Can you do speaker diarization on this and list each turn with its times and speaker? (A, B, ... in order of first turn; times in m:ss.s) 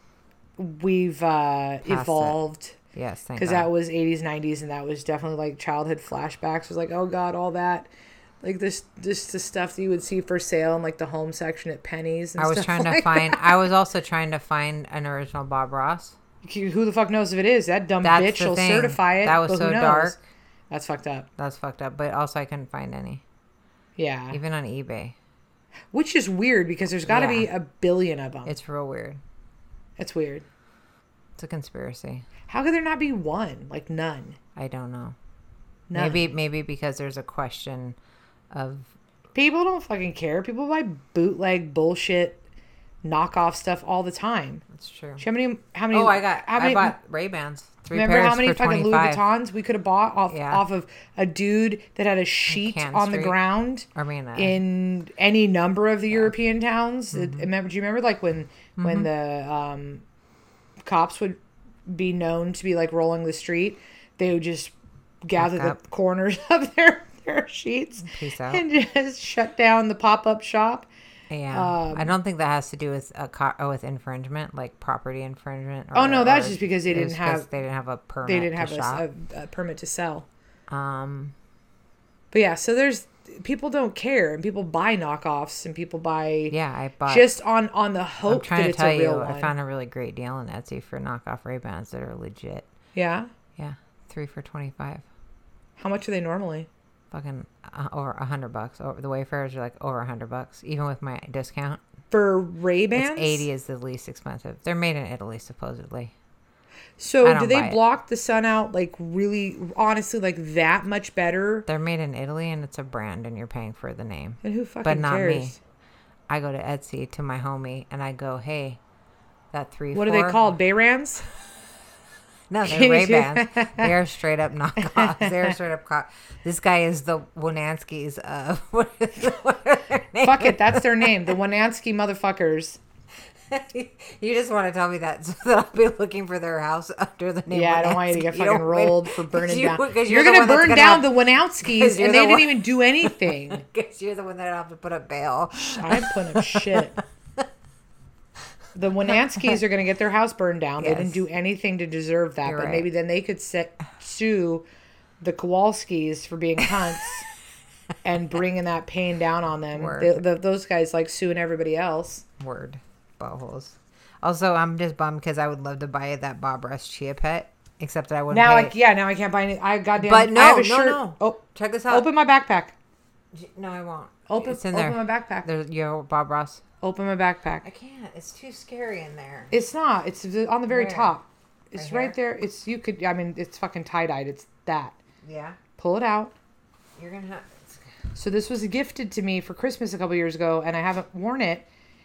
0:00.6-0:02.8 A
0:01.9-0:02.4 B
0:02.9-0:03.7 B
0:03.4-0:07.9 A
0:08.4-0:13.6 A
0:12.4-0:16.2 B
0:16.4-0:20.2 A
0:18.0-0:20.2 B
0:20.7-0:21.3 A
0:21.4-0:23.2 B
0:24.0-0:24.4 A
0:24.3-0:25.2 B
0:25.9-0:28.6 A
0:27.0-0:27.5 B
0:28.5-0:29.2 B
0:30.0-0:30.4 A
0:31.4-0:32.3 B
0:32.5-0:34.4 A
0:34.6-0:35.2 B
0:35.9-0:36.3 A
0:36.0-0:38.0 B
0:38.5-0:38.9 B
0:39.4-0:42.4 A
0:43.0-0:44.6 A
0:44.7-0:45.2 B
0:45.2-0:47.0 A
0:45.9-0:49.2 B
0:47.9-1:00.0 A
0:50.3-0:50.6 B
0:52.5-0:53.4 B
0:53.9-0:54.6 B
0:57.1-0:57.5 B
0:58.8-0:59.1 B
1:00.8-1:10.9 A
1:05.4-1:05.8 B
1:08.0-1:08.6 B
1:11.3-1:19.0 B
1:11.5-1:12.1 A
1:15.9-1:17.5 A
1:18.2-1:20.3 A
1:20.7-1:21.4 B
1:22.3-1:29.5 A
1:26.5-1:27.3 B
1:28.3-1:32.7 B
1:33.0-1:33.3 A
1:33.6-1:35.0 B
1:35.8-1:36.7 A
1:37.1-1:41.8 B
1:42.1-1:43.5 A
1:43.0-1:46.1 B
1:47.0-1:51.7 A
1:47.2-1:47.8 B
1:51.7-1:55.6 B
1:54.4-1:55.6 A
1:56.3-1:58.8 B
1:59.5-2:00.4 B
1:59.9-2:01.2 A
2:02.5-2:11.2 B
2:02.6-2:03.9 A
2:04.8-2:05.6 A
2:10.2-2:12.8 A
2:13.5-2:27.5 B
2:17.5-2:23.6 A
2:25.6-2:27.0 A
2:28.8-2:34.7 A
2:29.1-2:29.6 B
2:30.8-2:31.2 B
2:32.4-2:32.9 B
2:35.2-2:37.3 A
2:38.0-2:42.2 A
2:39.7-2:40.2 B
2:42.4-2:48.8 B
2:48.3-2:52.8 A
2:50.0-2:52.1 B
2:53.3-2:56.6 B
2:54.3-2:55.5 A
2:56.8-2:57.7 A
2:57.6-2:59.5 B
2:59.5-3:05.0 A
3:00.7-3:01.2 B
3:01.8-3:02.2 B
3:05.2-3:05.6 B
3:05.8-3:06.3 A
3:07.0-3:07.9 B
3:08.2-3:11.7 A